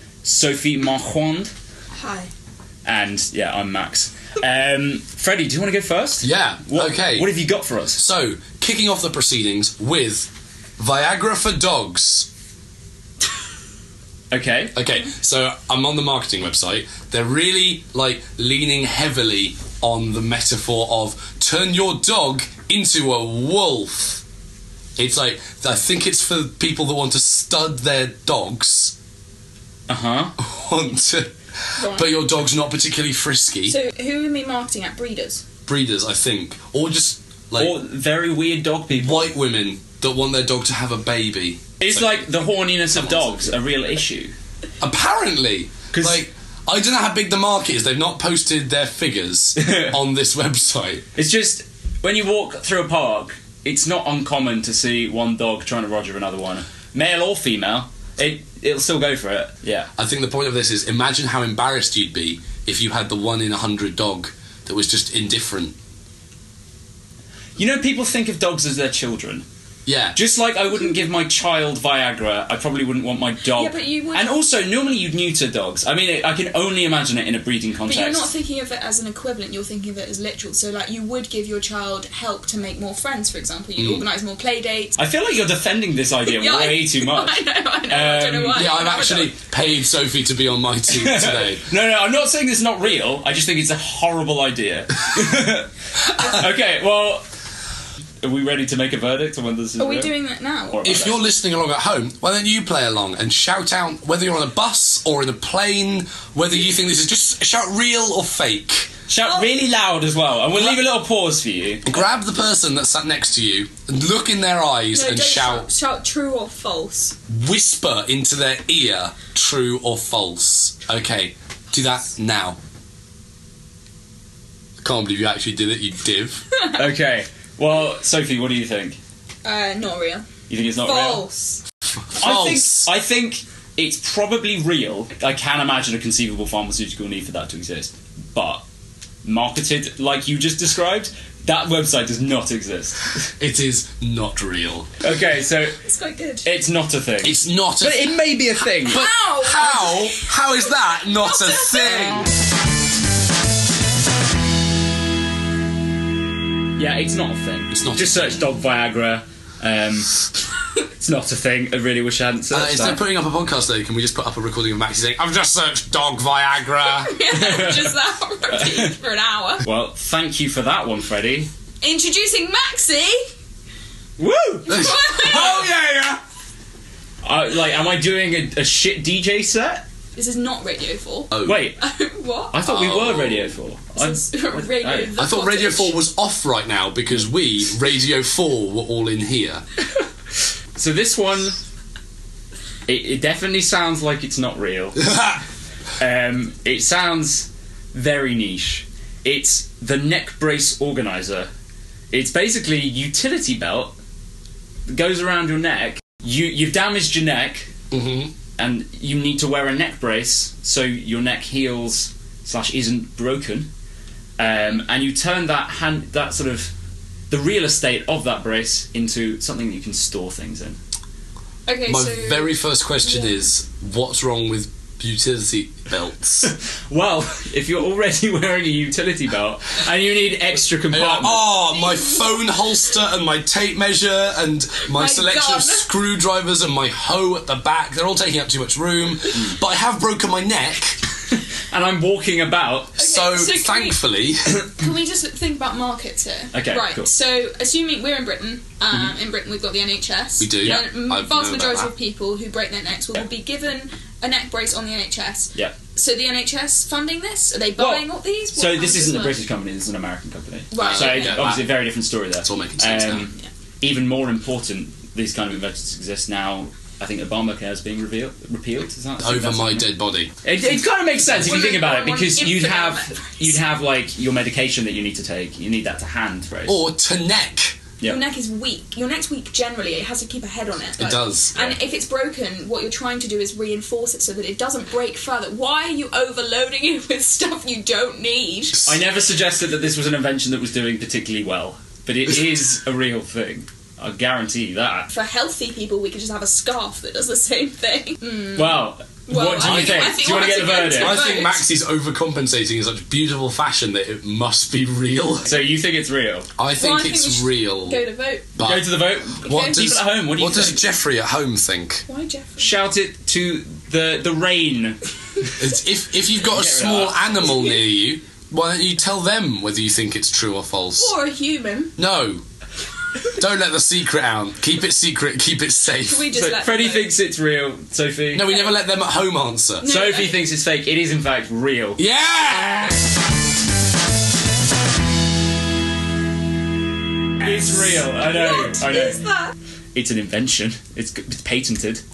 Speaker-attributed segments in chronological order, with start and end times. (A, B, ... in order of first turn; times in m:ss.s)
0:00.2-0:01.5 A
0:02.0-0:02.3 B
0:02.8-0:08.0 A
0:06.2-0:07.3 C
0:08.0-0:12.3 C
0:14.3-0:14.8 A
0:14.7-0:24.2 C
0:25.0-0:29.0 C
0:29.9-0:30.4 A
0:30.4-0:33.8 C
0:31.8-0:32.1 B
0:33.7-0:35.4 B
0:35.7-0:37.8 C
0:37.6-0:39.3 A
0:38.9-0:42.3 C
0:41.8-0:44.3 A
0:42.9-0:43.5 C
0:44.8-0:51.1 C
0:45.9-0:46.2 A
0:49.6-0:50.0 A
0:51.2-0:59.9 A
1:00.0-1:05.8 C
1:07.6-1:09.4 A
1:09.9-1:10.2 C
1:10.2-1:18.3 A
1:13.5-1:14.4 B
1:17.9-1:25.0 B
1:23.8-1:24.0 C
1:25.0-1:28.8 A
1:26.3-1:29.4 B
1:28.5-1:31.7 C
1:30.9-1:37.2 A
1:36.2-1:36.4 C
1:38.2-1:40.1 A
1:39.8-1:41.0 B
1:40.7-1:41.3 A
1:40.8-1:49.0 C
1:49.1-1:51.9 A
1:49.2-1:49.6 B
1:51.8-1:55.7 C
1:54.9-1:57.2 B
1:57.3-2:02.6 C
2:04.8-2:06.5 C
2:06.5-2:06.8 B
2:06.7-2:09.0 A
2:09.4-2:10.3 B
2:10.5-2:11.2 A
2:10.8-2:11.6 B
2:12.1-2:12.9 C
2:12.2-2:18.6 A
2:19.2-2:23.2 A
2:23.4-2:24.9 C
2:25.0-2:25.8 A
2:25.8-2:26.5 B
2:26.4-2:29.1 A
2:27.2-2:28.2 C
2:28.9-2:32.2 C
2:28.9-2:32.1 B
2:36.8-2:40.2 A
2:37.7-2:38.4 C
2:41.0-2:43.0 A
2:42.5-2:47.2 C
2:46.8-2:49.6 B
2:47.3-2:47.9 A
2:48.5-2:48.9 A
2:49.6-2:51.5 A
2:51.8-2:53.3 B
2:54.2-2:55.6 A
2:54.7-2:55.7 B
2:54.7-2:56.2 C
2:57.2-2:59.8 A
3:00.2-3:02.6 B
3:01.3-3:01.6 C
3:01.4-3:01.8 A
3:02.5-3:05.1 A
3:02.6-3:03.6 C
3:04.0-3:06.0 B
3:05.2-3:09.6 C
3:10.8-3:11.6 A
3:12.9-3:15.2 A
3:15.0-3:15.4 C
3:16.0-3:21.5 A
3:22.1-3:23.9 A
3:24.9-3:27.7 A
3:27.9-3:28.3 C
3:28.6-3:33.7 A
3:34.4-3:36.7 A
3:34.5-3:34.7 B
3:37.3-3:40.8 A
3:41.7-3:43.5 B
3:41.9-3:46.5 C
3:46.4-3:51.5 A
3:50.9-4:01.0 C
3:51.7-3:52.5 B
3:54.9-3:55.9 B
4:01.3-4:03.0 A
4:03.0-4:04.0 B
4:03.0-4:04.6 C
4:04.8-4:19.4 B
4:06.5-4:07.1 A
4:10.4-4:11.9 C
4:17.8-4:29.9 A
4:20.7-4:21.5 B
4:20.8-4:21.7 C
4:22.4-4:23.3 C
4:29.2-4:30.4 C
4:30.4-4:36.8 A
4:31.3-4:33.6 B
4:36.7-4:37.8 C
4:38.0-4:48.9 B
4:41.0-4:41.6 C
4:48.8-4:55.1 A
4:55.1-5:01.6 B
4:58.6-5:01.2 A
4:59.7-4:59.9 C
5:01.0-5:05.5 C
5:05.4-5:06.5 A
5:06.6-5:08.0 C
5:06.8-5:08.5 B
5:08.6-5:12.0 C
5:08.6-5:10.9 A
5:09.4-5:09.9 B
5:12.1-5:12.8 B
5:12.6-5:15.5 A
5:15.6-5:21.1 C
5:16.4-5:17.4 A
5:21.0-5:21.9 B
5:22.0-5:22.4 C
5:23.4-5:26.3 C
5:26.1-5:27.1 B
5:26.3-5:28.6 A
5:28.3-5:29.9 C
5:29.8-5:30.4 B
5:29.8-5:32.0 A
5:32.0-5:33.0 C
5:37.4-5:39.2 A
5:37.4-5:38.0 C
5:38.2-5:39.6 B
5:39.9-5:42.0 A